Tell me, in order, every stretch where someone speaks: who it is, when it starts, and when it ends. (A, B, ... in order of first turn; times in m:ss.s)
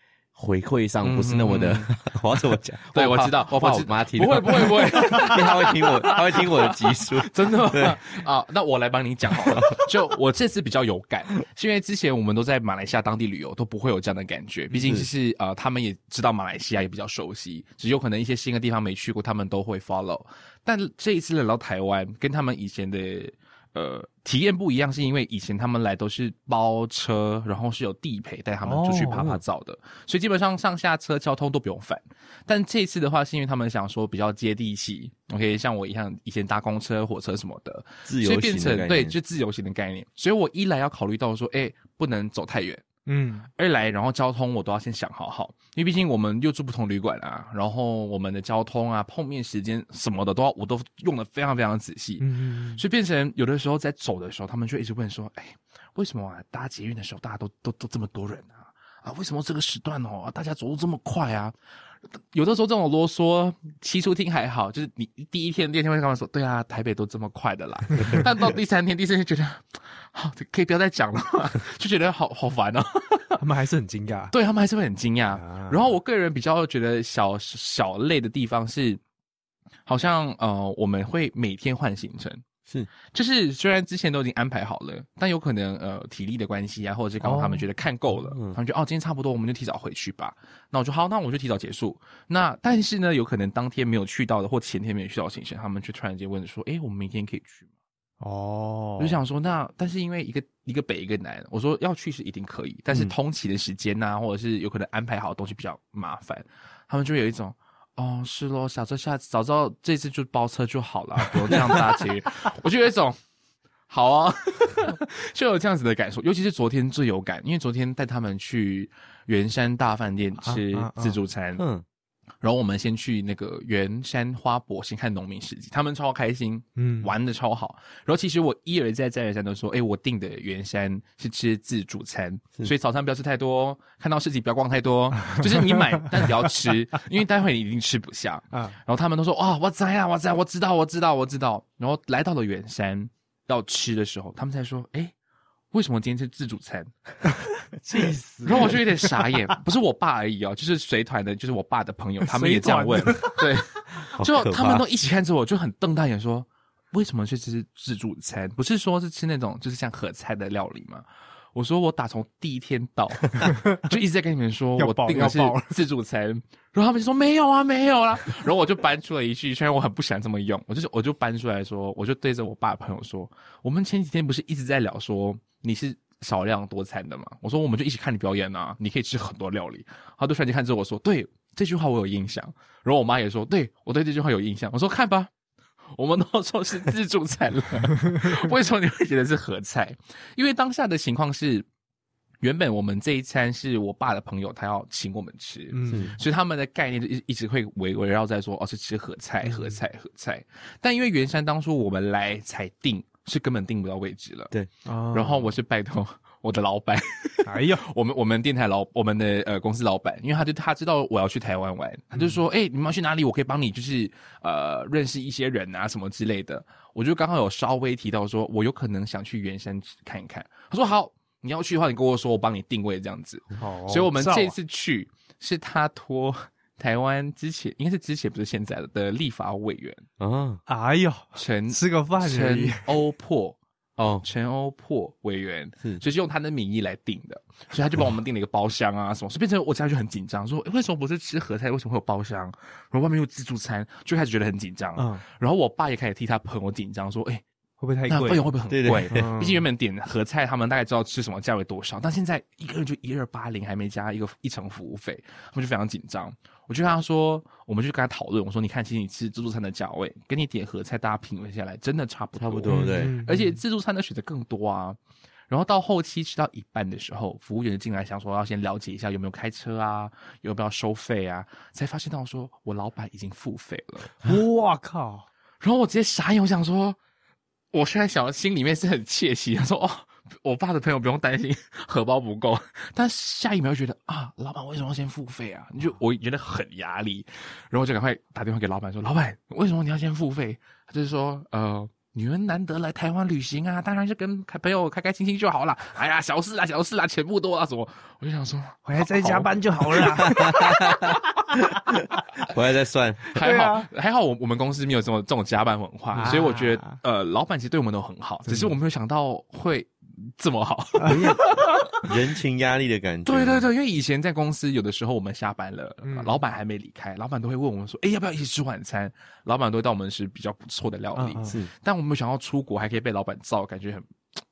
0:00.3-0:08.0 A
0:01.0-0:01.9 B
0:02.9-0:42.8 B
0:09.4-0:09.8 A
0:14.8-0:15.1 A
0:28.6-0:29.2 C
0:29.2-0:29.4 A
0:38.1-0:39.2 A
0:43.1-0:43.5 C
0:43.6-1:01.5 B
0:52.2-0:52.8 C
1:02.3-1:13.4 B
1:08.0-1:08.2 A
1:13.4-1:14.3 C
1:14.3-1:19.0 B
1:15.3-1:15.9 C
1:19.8-1:22.4 B
1:23.1-1:37.7 B
1:27.2-1:27.7 C
1:28.2-1:28.6 A
1:38.2-1:39.2 C
1:39.0-1:53.2 B
1:51.5-1:51.8 A
1:53.9-2:01.6 B
2:00.4-2:01.2 C
2:01.6-2:01.8 A
2:02.4-2:25.1 B
2:06.8-2:07.1 C
2:15.2-2:16.0 C
2:25.7-2:26.9 B
2:27.8-2:29.2 C
2:28.4-2:41.0 B
2:32.2-2:33.4 C
2:34.1-2:34.8 A
2:41.5-3:05.3 B
2:43.4-2:43.8 C
2:44.8-2:45.7 C
3:05.9-3:11.6 B
3:12.4-3:24.5 B
3:15.7-3:16.2 C
3:15.9-3:16.1 A
3:19.4-3:19.8 C
3:24.8-3:25.5 C
3:25.1-3:50.0 B
3:27.4-3:27.8 C
3:43.6-3:44.5 C
3:50.2-3:50.6 A
3:50.7-3:52.8 C
3:51.4-3:53.6 B
3:54.0-3:54.2 A
3:54.2-4:07.4 B
4:05.0-4:05.2 C
4:07.8-4:08.5 C
4:08.1-4:25.0 B
4:08.7-4:09.2 A
4:09.1-4:09.6 C
4:22.4-4:23.1 A
4:22.7-4:23.6 C
4:25.5-4:34.1 B
4:34.1-4:35.3 C
4:35.6-4:37.0 B
4:37.7-5:00.0 B
4:58.8-5:01.2 C
5:00.2-5:03.3 A
5:03.3-5:12.1 B
5:03.4-5:03.9 C
5:06.1-5:07.0 C
5:08.4-5:08.7 C
5:11.0-5:11.2 C
5:11.0-5:13.7 A
5:13.2-5:24.1 B
5:16.0-5:16.4 C
5:21.1-5:21.6 C